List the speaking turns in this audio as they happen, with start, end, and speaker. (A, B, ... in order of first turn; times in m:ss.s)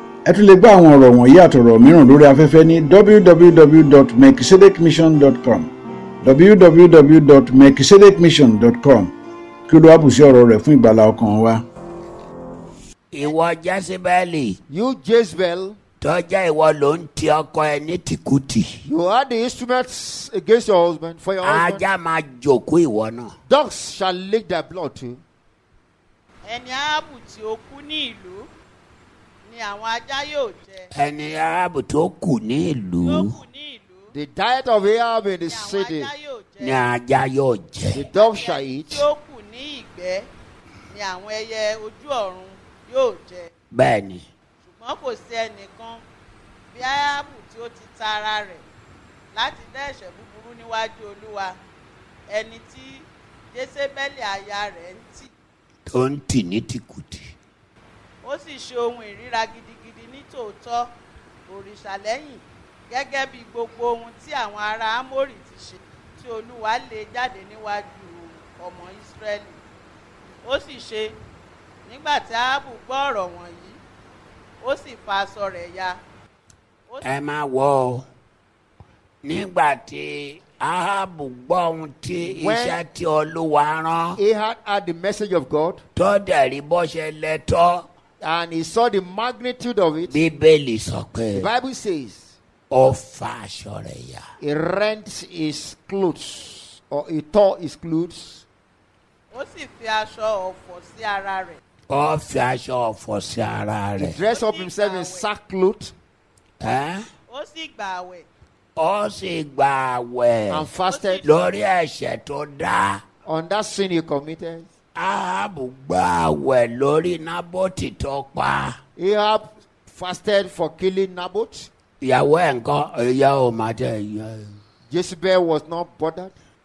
0:00.2-0:09.1 A
0:09.7-0:11.6 A
0:13.1-0:14.6 B
0:14.7-0:15.8 C
0:16.0-0:18.8 B
0:18.8-0:21.8 C
0:21.4-0:23.3 B
0:23.5-0:25.2 C
0:26.4-0:28.5 D
0:29.4-0:30.9 D
0:30.9-0:33.3 B
0:33.0-0:34.1 D
0:34.1-0:36.1 C
0:35.5-0:36.8 D
0:36.6-0:38.0 B
0:37.9-0:39.0 C
0:38.1-0:40.3 D
0:40.9-0:43.5 D
0:43.7-0:44.2 B
0:44.6-0:46.0 D
0:46.7-0:48.6 D
0:49.3-0:51.6 D
0:52.3-0:55.3 D
0:55.9-0:57.3 B
0:58.2-1:00.9 D
1:01.5-1:09.6 D
1:10.4-1:11.1 D
1:11.8-1:13.8 D
1:14.6-1:16.0 D
1:17.0-1:18.0 B
1:19.2-1:24.2 B
1:22.2-1:22.8 C
1:24.2-1:25.8 C
1:26.0-1:27.8 B
1:28.2-1:30.2 C
1:30.1-1:31.5 B
1:31.3-1:32.3 C
1:32.7-1:34.2 B
1:34.4-1:38.4 C
1:39.3-1:41.6 D
1:41.9-1:44.2 B
1:44.0-1:45.9 C
1:44.3-1:45.3 D
1:46.6-1:47.0 B
1:47.3-1:48.3 D
1:48.8-1:50.7 B
1:50.5-1:51.2 C
1:50.8-1:51.4 D
1:51.2-1:53.0 B
1:53.2-1:54.6 C
1:54.9-1:58.7 B
1:59.0-2:01.7 C
2:02.0-2:04.5 B
2:04.9-2:06.3 C